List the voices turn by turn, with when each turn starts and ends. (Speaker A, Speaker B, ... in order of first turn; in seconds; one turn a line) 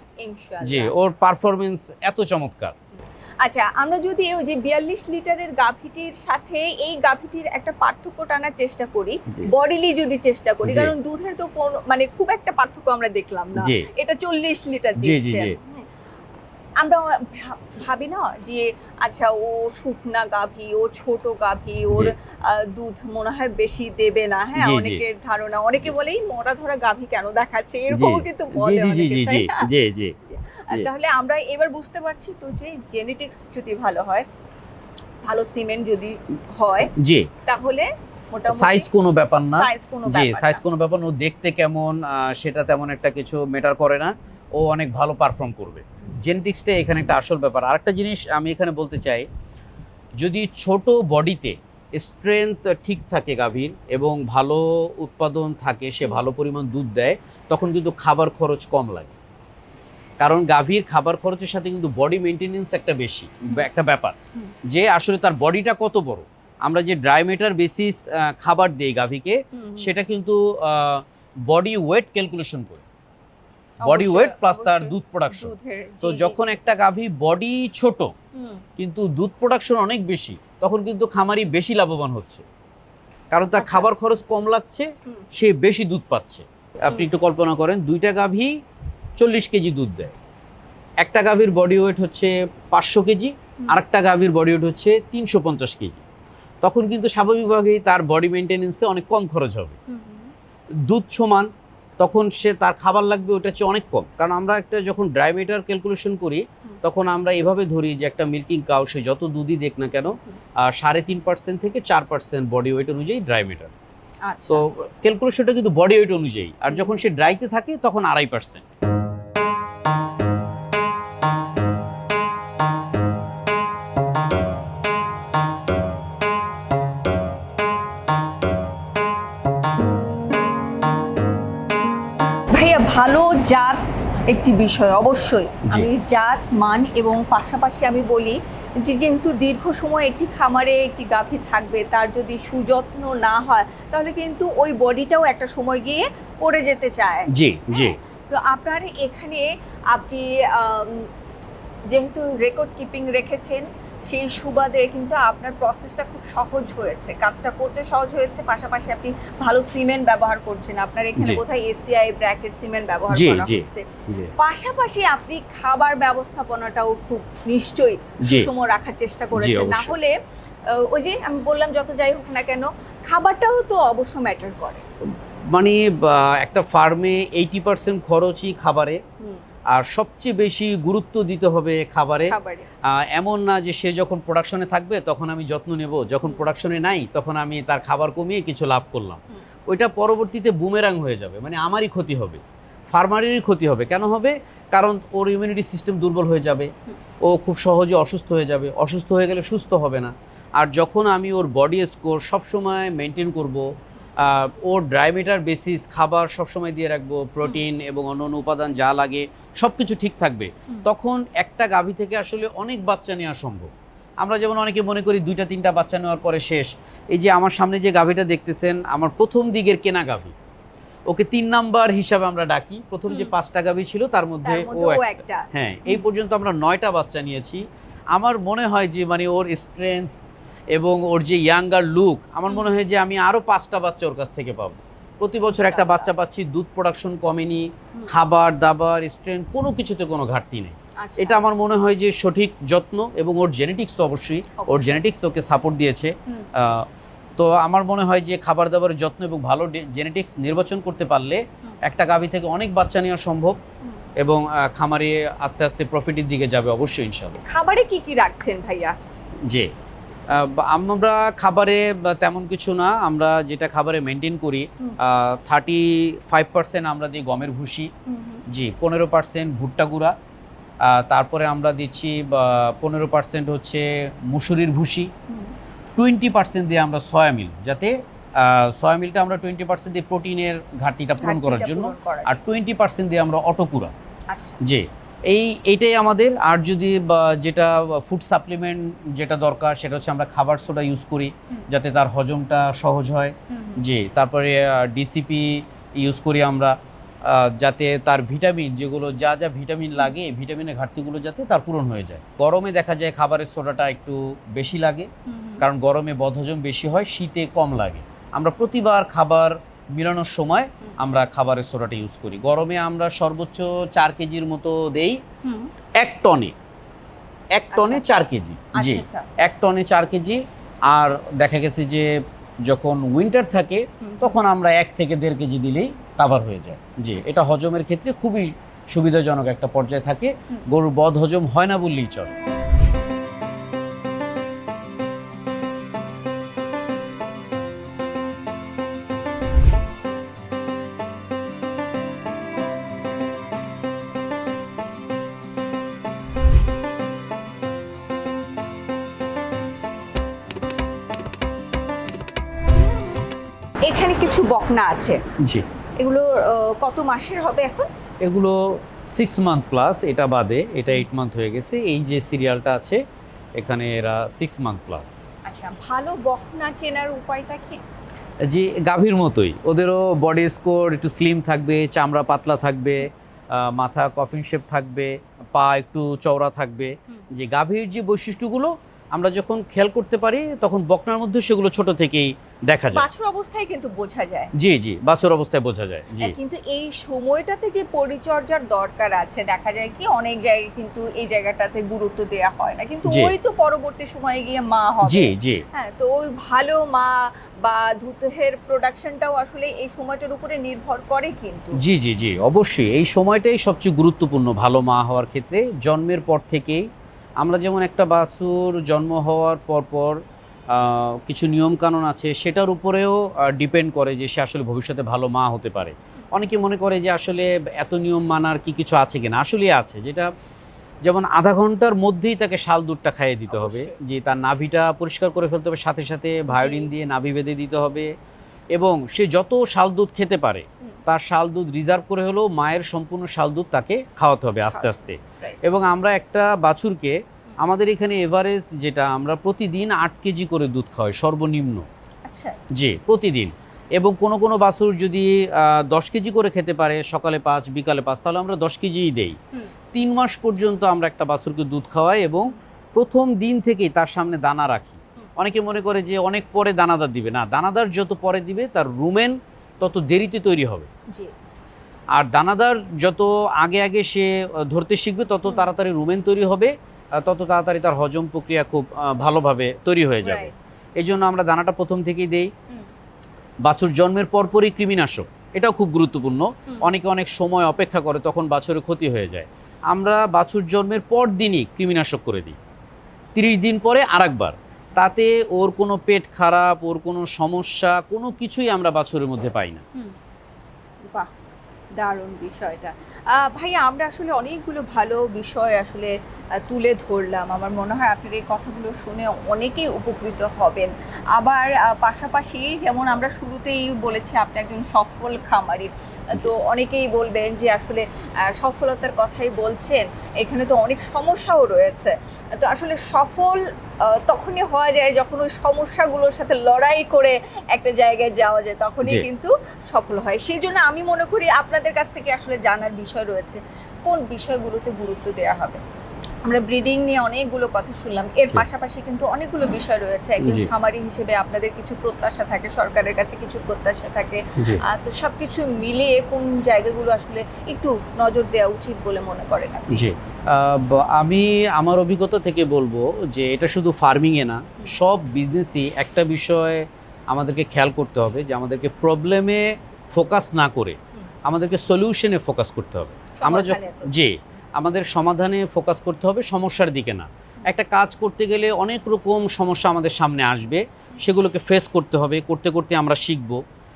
Speaker A: 0.2-0.9
Speaker B: 0.6-2.7
Speaker A: 3.4-15.8
Speaker B: 10.6-10.9
Speaker B: 13.6-13.9
Speaker B: 15.0-15.5
Speaker A: 16.8-29.7
Speaker B: 24.6-25.0
Speaker B: 27.9-30.1
Speaker A: 30.3-34.3
Speaker A: 35.2-36.9
Speaker B: 37.0-37.3
Speaker A: 37.4-38.9
Speaker B: 38.5-49.3
Speaker A: 39.5-40.6
Speaker B: 50.2-59.1
Speaker B: 60.2-72.8
Speaker A: 69.5-69.9
Speaker A: 73.8-76.4
Speaker B: 73.8-78.1
Speaker A: 78.3-78.6
Speaker B: 78.8-82.5
Speaker B: 83.3-88.5
Speaker A: 83.5-83.9
Speaker B: 89.2-90.1
Speaker B: 91.0-96.0
Speaker B: 96.6-99.8
Speaker A: 99.9-100.3
Speaker B: 100.9-113.7
Speaker A: 114.3-114.6
Speaker B: 114.5-118.6
Speaker A: 132.5-151.1
Speaker B: 147.3-148.0
Speaker A: 151.9-170.1
Speaker B: 163.1-164.3
Speaker B: 168.2-168.5
Speaker B: 169.4-170.0
Speaker A: 170.7-174.8
Speaker B: 175.5-179.0
Speaker B: 179.7-182.3
Speaker A: 182.3-182.7
Speaker B: 182.8-196.7
Speaker B: 197.2-203.7
Speaker B: 204.2-213.7
Speaker B: 214.2-220.3
Speaker B: 221.1-230.1
Speaker A: 224.4-226.0
Speaker B: 230.7-253.6
Speaker A: 232.5-232.7
Speaker A: 235.5-236.1
Speaker A: 241.0-241.4
Speaker A: 244.6-245.0
Speaker B: 254.2-257.4
Speaker A: 257.4-258.9
Speaker B: 260.3-267.9
Speaker A: 268.1-268.4
Speaker B: 268.5-270.1
Speaker B: 270.8-275.1
Speaker B: 276.0-283.9
Speaker A: 281.2-282.4
Speaker A: 284.3-284.6
Speaker B: 284.6-315.2
Speaker A: 293.5-293.8
Speaker A: 305.3-305.6
Speaker A: 315.4-315.7
Speaker B: 316.0-316.6
Speaker B: 317.5-332.3
Speaker A: 317.7-318.0
Speaker A: 318.7-319.2
Speaker A: 324.0-324.4
Speaker A: 327.2-327.4
Speaker A: 353.8-355.2
Speaker A: 356.0-357.9
Speaker B: 358.2-358.6
Speaker B: 359.1-363.0
Speaker B: 363.6-365.1
Speaker A: 365.4-367.8
Speaker B: 368.5-383.1
Speaker A: 382.9-384.5
Speaker B: 384.6-386.4
Speaker A: 386.2-401.8
Speaker B: 393.1-393.3
Speaker B: 395.0-395.6
Speaker B: 401.8-406.8
Speaker B: 407.4-410.2
Speaker B: 410.7-420.3
Speaker B: 421.0-428.1
Speaker A: 423.5-423.9
Speaker A: 426.5-426.9
Speaker B: 428.7-441.9
Speaker A: 434.7-435.6
Speaker A: 442.2-442.6
Speaker B: 442.7-449.4
Speaker B: 449.9-460.9
Speaker B: 462.1-472.5
Speaker A: 470.2-470.5
Speaker B: 473.6-482.6
Speaker B: 483.3-489.8
Speaker A: 492.0-525.8
Speaker A: 526.4-540.1
Speaker B: 530.4-530.7
Speaker B: 539.9-563.6
Speaker A: 553.3-554.0